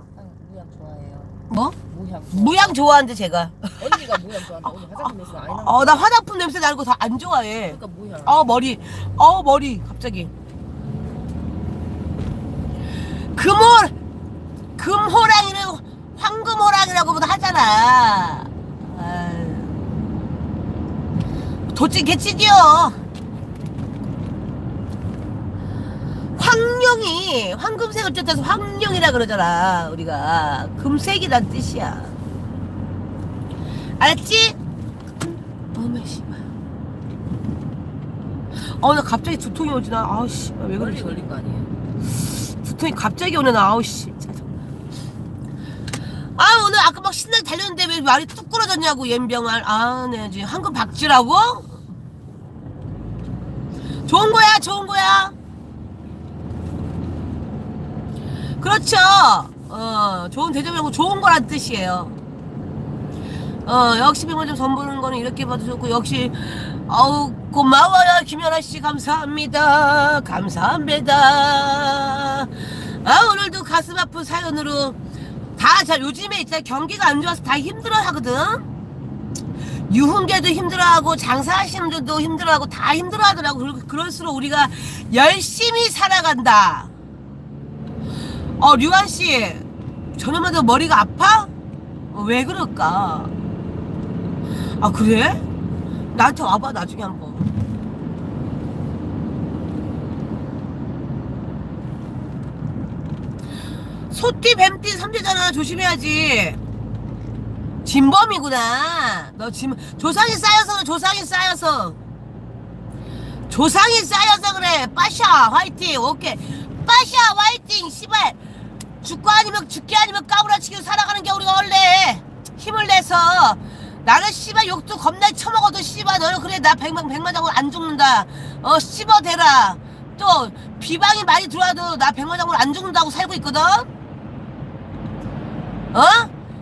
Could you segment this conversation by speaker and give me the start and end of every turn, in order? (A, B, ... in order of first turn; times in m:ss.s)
0:00.1-0:02.8 A
0:01.5-0:01.7 B
0:02.3-0:04.2 B
0:03.8-0:06.1 A
0:04.9-0:10.3 B
0:07.6-0:08.7 A
0:13.3-0:13.9 B
0:14.8-0:19.8 B
0:21.7-0:23.0 B
0:26.4-0:32.1 B
0:34.0-0:34.6 B
0:35.7-0:36.4 B
0:38.8-0:41.2 B
0:40.7-0:41.7 A
0:42.5-0:44.5 B
0:46.4-0:51.7 B
0:54.1-0:55.3 B
0:58.6-1:02.2 B
1:03.6-1:12.5 B
1:13.0-1:15.0 B
1:15.6-1:18.7 B
1:19.9-1:26.9 B
1:28.6-1:29.6 B
1:30.2-1:31.5 B
1:32.1-1:33.3 B
1:34.8-1:35.5 B
1:36.1-1:37.5 B
1:44.1-1:46.6 B
1:47.8-1:52.0 B
1:53.5-1:58.4 B
1:59.0-2:13.9 B
2:15.9-2:16.3 B